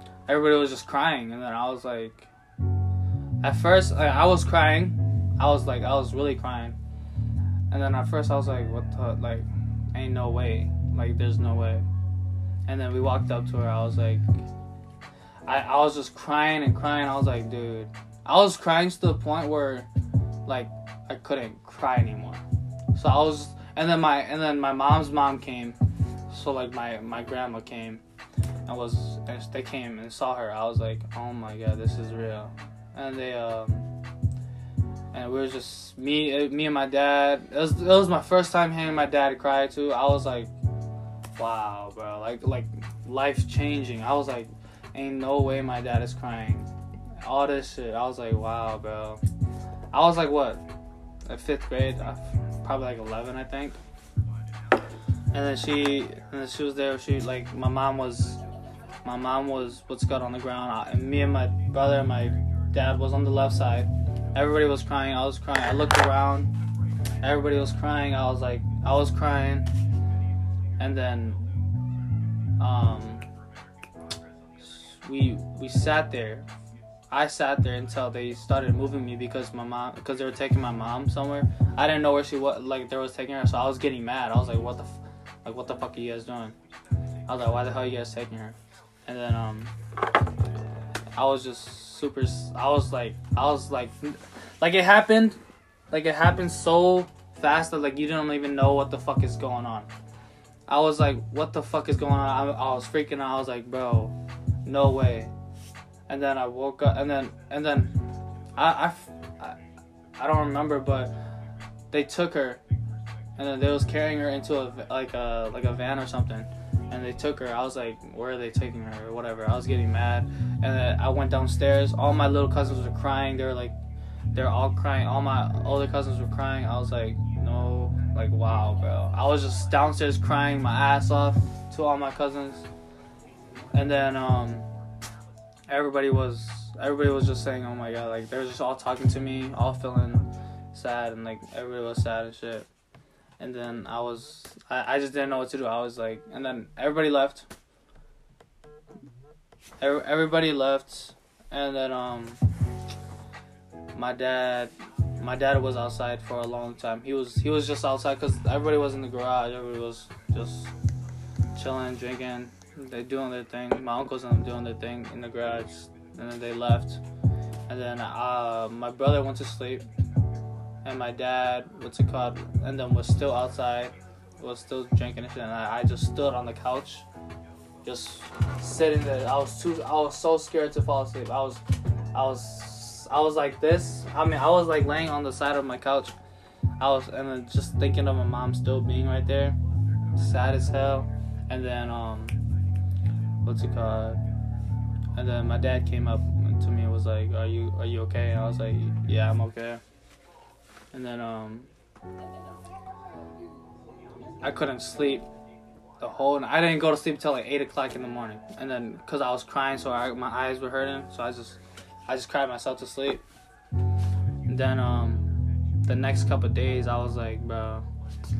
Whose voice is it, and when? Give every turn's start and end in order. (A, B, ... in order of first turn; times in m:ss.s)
0:00.3-0:02.3 A
0:03.4-0:06.8 A
0:07.7-0:11.8 A
0:12.6-0:14.2 A
0:15.4-0:19.9 A
0:20.4-0:22.4 A
0:22.9-0:25.8 A
0:26.3-0:28.0 A
0:28.6-0:33.9 A
0:35.1-0:40.5 A
0:41.4-0:46.7 A
0:47.2-0:49.2 A
0:49.9-0:50.6 A
0:51.3-0:53.8 A
0:55.3-0:58.4 A
0:59.0-1:06.5 A
1:07.2-1:09.7 A
1:10.8-1:11.5 A
1:12.6-1:13.2 A
1:14.6-1:16.5 A
1:17.1-1:26.6 A
1:27.3-1:28.6 A
1:29.1-1:29.7 A
1:31.2-1:35.4 A
1:35.9-1:39.9 A
1:40.7-1:45.3 A
1:46.1-1:47.9 A
1:48.6-1:49.6 A
1:50.2-1:51.1 A
1:51.9-1:52.6 A
1:53.4-2:03.8 A
2:04.3-2:12.6 A
2:13.7-2:14.7 A
2:15.7-2:22.7 A
2:23.4-2:27.5 A
2:29.8-2:32.4 A
2:33.9-2:40.7 A
2:41.5-2:47.0 A
2:47.7-2:49.8 A
2:50.8-2:57.0 A
2:57.8-3:01.6 A
3:02.1-3:06.1 A
3:06.8-3:09.6 A
3:10.2-3:12.4 A
3:13.4-3:14.2 A
3:15.2-3:19.8 A
3:20.9-3:21.7 A
3:24.4-3:25.3 A
3:26.0-3:33.2 A
3:34.5-3:35.2 A
3:35.8-3:37.8 A